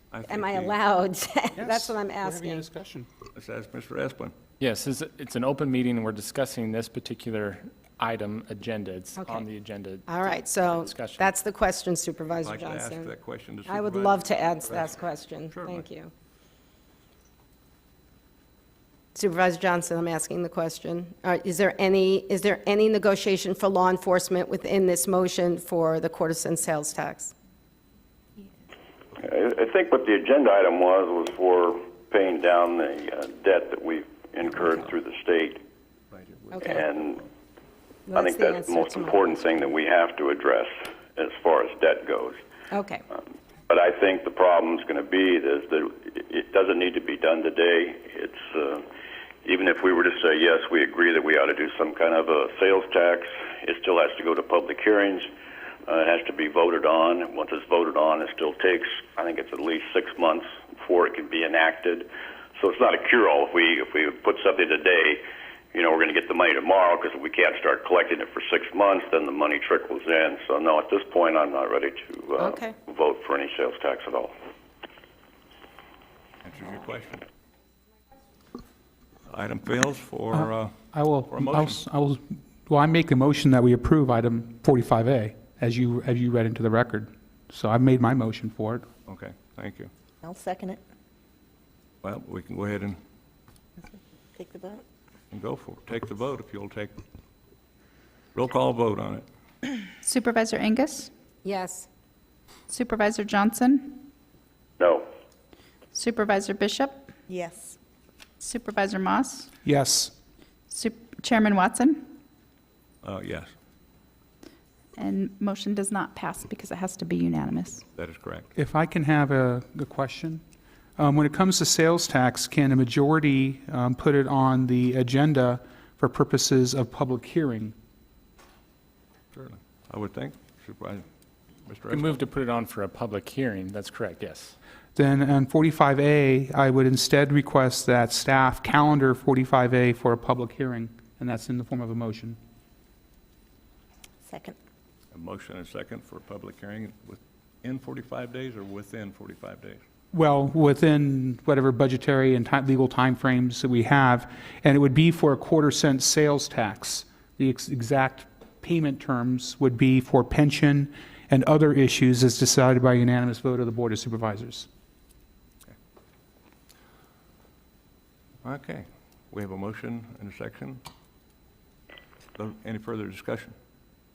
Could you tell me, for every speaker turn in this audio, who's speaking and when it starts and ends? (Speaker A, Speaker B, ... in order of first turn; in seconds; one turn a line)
Speaker A: 0.1-0.8
Speaker B: 0.3-2.7
Speaker C: 1.6-3.1
Speaker A: 3.4-4.3
Speaker D: 4.6-11.3
Speaker B: 9.2-9.4
Speaker B: 10.1-13.1
Speaker A: 12.4-15.0
Speaker B: 13.7-16.1
Speaker A: 15.5-15.8
Speaker B: 19.1-27.3
Speaker E: 29.2-35.6
Speaker A: 36.1-37.3
Speaker B: 36.5-36.8
Speaker E: 36.7-37.2
Speaker B: 38.1-39.8
Speaker E: 38.1-42.4
Speaker B: 42.7-43.0
Speaker E: 43.7-48.9
Speaker E: 49.5-55.3
Speaker E: 55.9-65.2
Speaker E: 65.7-74.3
Speaker B: 72.4-72.7
Speaker A: 76.4-77.3
Speaker A: 79.3-81.8
Speaker C: 80.3-88.9
Speaker A: 89.1-89.9
Speaker F: 90.2-90.8
Speaker A: 92.0-93.0
Speaker F: 94.3-94.8
Speaker A: 95.3-97.0
Speaker A: 98.3-99.3
Speaker G: 100.0-101.1
Speaker B: 101.4-101.9
Speaker G: 102.7-104.0
Speaker E: 104.8-105.1
Speaker G: 105.9-107.1
Speaker F: 107.3-107.8
Speaker G: 108.4-109.5
Speaker C: 109.7-110.1
Speaker G: 110.7-112.1
Speaker A: 113.0-113.5
Speaker G: 115.0-117.8
Speaker A: 118.0-118.5
Speaker C: 118.6-120.4
Speaker C: 121.0-127.8
Speaker A: 129.3-131.1
Speaker A: 131.7-132.2
Speaker D: 131.9-134.6
Speaker C: 135.0-142.4
Speaker F: 144.2-144.6
Speaker A: 145.1-149.8
Speaker C: 150.1-164.7
Speaker A: 168.4-170.8
Speaker A: 172.4-173.6